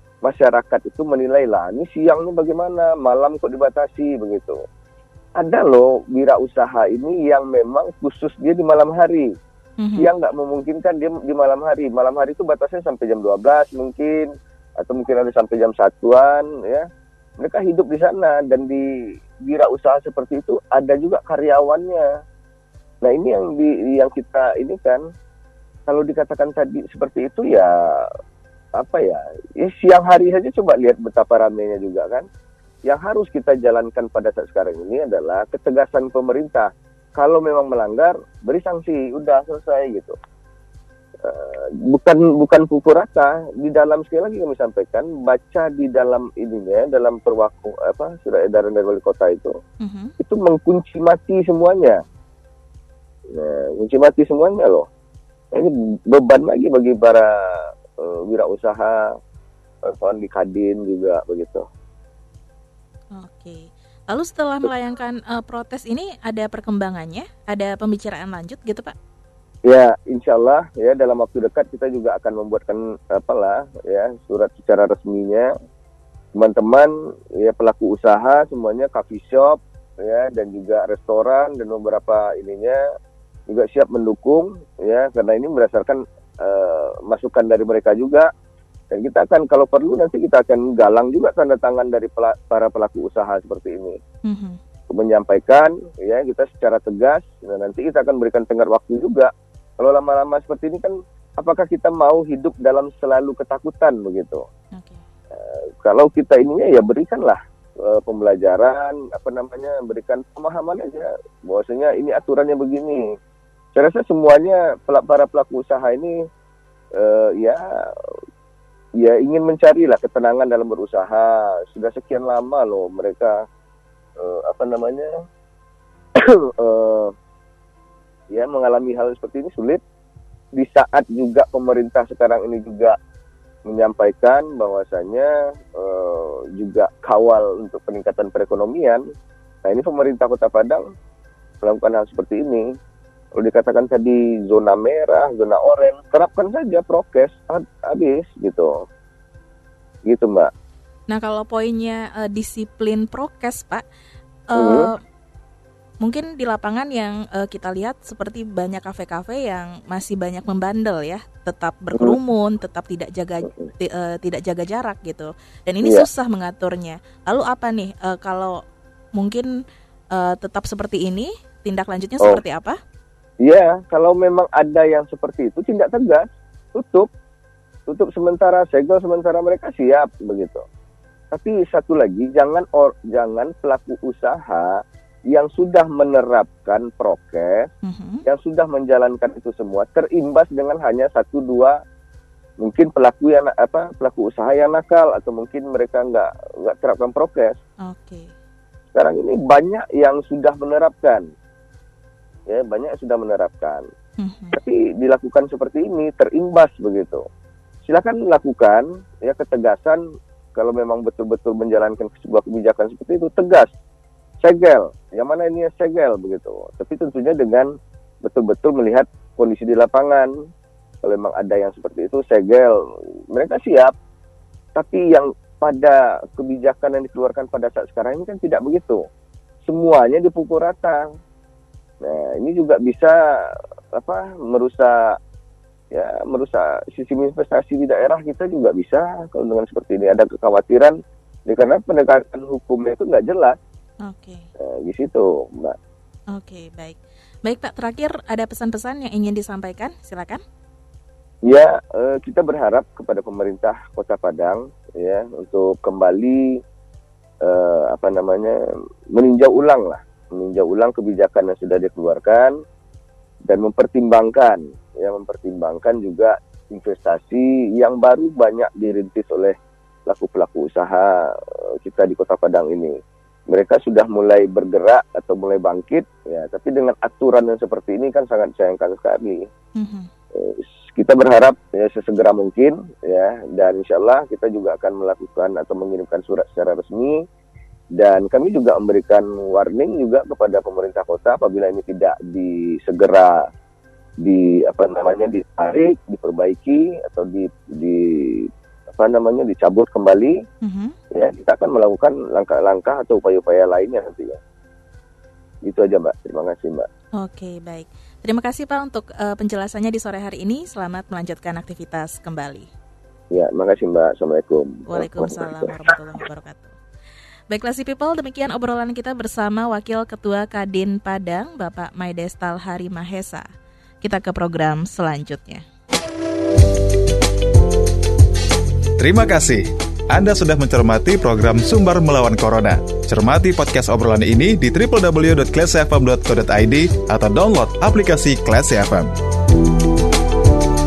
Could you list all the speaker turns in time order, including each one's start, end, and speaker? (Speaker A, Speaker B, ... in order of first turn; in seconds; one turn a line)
Speaker A: 0.2-4.6
Speaker A: 5.4-9.3
Speaker B: 9.8-10.1
Speaker A: 10.0-16.9
Speaker A: 17.4-18.9
Speaker A: 19.4-22.1
Speaker A: 23.0-25.0
Speaker A: 25.9-28.1
Speaker A: 28.8-32.2
Speaker A: 32.9-40.1
Speaker A: 41.2-49.5
Speaker B: 49.8-50.1
Speaker A: 50.2-52.0
Speaker A: 53.3-54.9
Speaker A: 55.5-59.1
Speaker A: 59.9-61.7
Speaker B: 63.1-69.0
Speaker A: 69.7-75.5
Speaker A: 76.4-82.8
Speaker A: 83.5-88.3
Speaker A: 88.9-94.0
Speaker B: 94.2-94.6
Speaker A: 94.9-104.4
Speaker B: 104.8-105.0
Speaker A: 105.3-113.1
Speaker A: 113.7-116.2
Speaker A: 117.0-117.9
Speaker A: 119.0-123.4
Speaker A: 124.2-125.1
Speaker A: 126.2-127.1
Speaker A: 128.3-129.8
Speaker A: 130.6-132.9
Speaker A: 133.7-139.0
Speaker A: 139.7-140.8
Speaker A: 141.6-142.7
Speaker A: 143.4-148.8
Speaker A: 150.1-150.5
Speaker B: 151.1-153.8
Speaker B: 154.5-155.0
Speaker A: 154.6-154.9
Speaker B: 156.0-168.6
Speaker A: 165.8-166.1
Speaker B: 169.2-169.5
Speaker B: 170.1-172.8
Speaker A: 173.4-177.1
Speaker A: 177.9-180.7
Speaker A: 181.3-187.7
Speaker B: 187.8-188.2
Speaker A: 188.2-191.8
Speaker A: 192.6-197.6
Speaker B: 197.8-198.3
Speaker A: 198.9-201.2
Speaker A: 202.5-203.8
Speaker B: 204.2-204.6
Speaker A: 204.5-207.2
Speaker A: 207.8-210.0
Speaker A: 210.6-213.7
Speaker A: 214.4-217.7
Speaker A: 218.2-220.3
Speaker A: 221.0-223.9
Speaker A: 224.8-229.0
Speaker A: 229.7-231.1
Speaker A: 232.0-235.2
Speaker A: 235.9-243.6
Speaker B: 244.1-244.4
Speaker A: 244.6-245.8
Speaker B: 246.3-250.4
Speaker A: 251.4-256.6
Speaker A: 257.4-262.5
Speaker A: 263.5-273.0
Speaker A: 273.5-279.4
Speaker B: 279.8-280.1
Speaker A: 280.4-287.2
Speaker A: 288.0-293.5
Speaker A: 294.2-300.4
Speaker B: 300.6-300.9
Speaker A: 301.1-304.4
Speaker A: 305.6-306.9
Speaker B: 307.2-312.7
Speaker A: 313.3-315.9
Speaker B: 314.9-316.7
Speaker B: 317.5-323.4
Speaker B: 324.0-325.6
Speaker C: 329.0-339.1